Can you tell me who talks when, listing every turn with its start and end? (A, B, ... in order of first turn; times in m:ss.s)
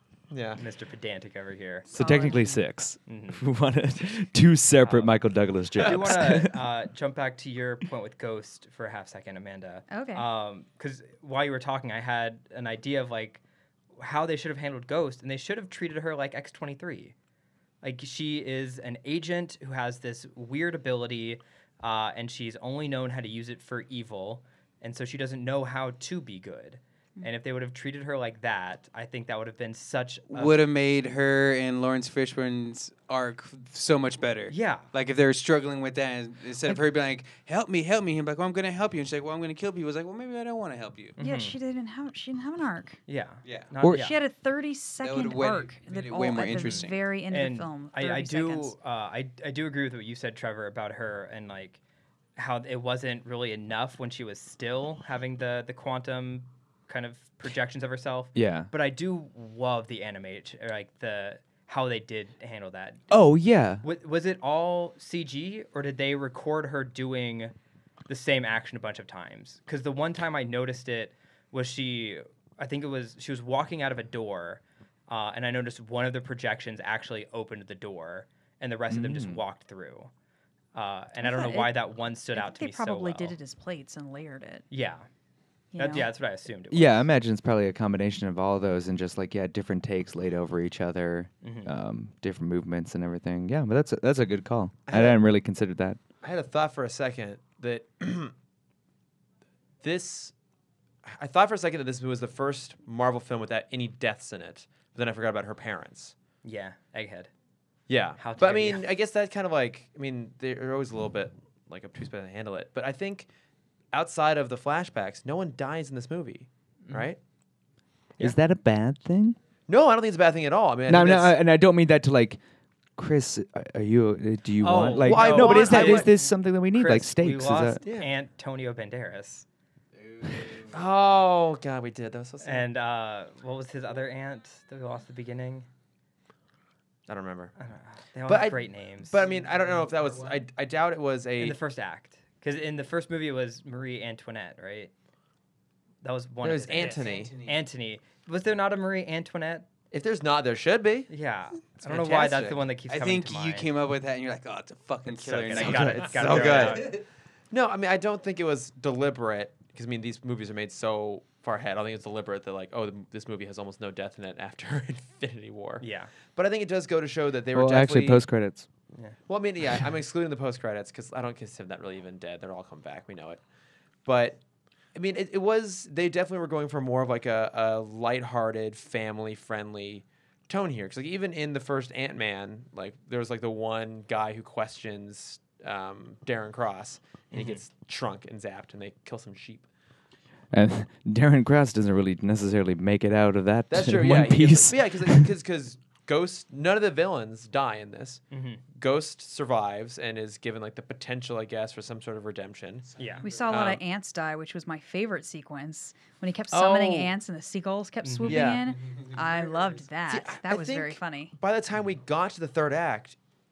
0:00.3-0:00.6 A
0:00.6-0:01.9 B
0:01.9-0:02.6 C
0:01.9-0:06.6 D
0:03.1-0:03.4 B
0:05.8-0:13.4 B
0:09.9-0:10.3 C
0:14.0-0:17.1 B
0:17.8-0:30.6 B
0:30.3-0:41.2 E
0:34.5-0:34.8 B
0:41.2-0:41.6 B
0:41.2-0:43.0 C
0:43.1-0:44.2 B
0:43.4-0:43.7 E
0:43.8-0:44.1 D
0:43.9-0:48.7 C
0:45.0-0:47.0 E
0:46.6-0:51.8 B
0:52.4-1:03.1 B
0:58.3-0:58.7 D
1:03.1-1:03.8 D
1:03.8-1:07.5 B
1:08.1-1:20.1 B
1:18.9-1:19.4 D
1:20.7-1:23.4 B
1:21.2-1:21.8 C
1:22.3-1:24.6 C
1:24.7-1:25.0 B
1:25.7-1:26.1 C
1:25.8-1:27.1 B
1:26.7-1:36.0 D
1:31.4-1:31.7 B
1:34.9-1:35.2 A
1:36.2-1:38.3 A
1:39.8-1:40.3 A
1:41.0-1:46.1 A
1:46.4-1:47.3 B
1:47.9-1:53.3 A
1:48.2-1:48.9 B
1:53.9-1:57.2 A
1:56.8-1:57.1 B
1:58.2-1:59.4 D
1:59.7-2:01.4 A
2:00.9-2:02.4 D
2:03.0-2:07.8 D
2:04.6-2:09.4 B
2:04.9-2:06.1 A
2:07.8-2:08.1 A
2:10.2-2:10.7 E
2:10.5-2:12.7 A
2:12.4-2:15.7 B
2:17.1-2:17.5 A
2:17.6-2:19.3 B
2:18.2-2:21.6 A
2:21.4-2:24.9 B
2:26.0-2:29.6 B
2:26.4-2:27.3 A
2:26.7-2:27.6 E
2:29.9-2:31.1 A
2:31.1-2:33.7 B
2:31.6-2:32.6 A
2:32.9-2:36.9 E
2:35.1-2:37.0 B
2:35.4-2:48.2 A
2:45.8-2:46.1 B
2:47.5-2:48.7 D
2:49.3-2:53.4 A
2:54.0-2:54.4 A
2:54.9-3:09.7 A
3:07.3-3:07.6 B
3:10.5-3:15.3 D
3:13.7-3:22.9 A
3:18.3-3:18.6 B
3:23.0-3:23.2 B
3:23.2-3:31.3 C
3:23.5-3:23.8 A
3:26.5-3:27.1 A
3:28.0-3:28.6 B
3:28.2-3:28.7 A
3:30.1-3:33.2 A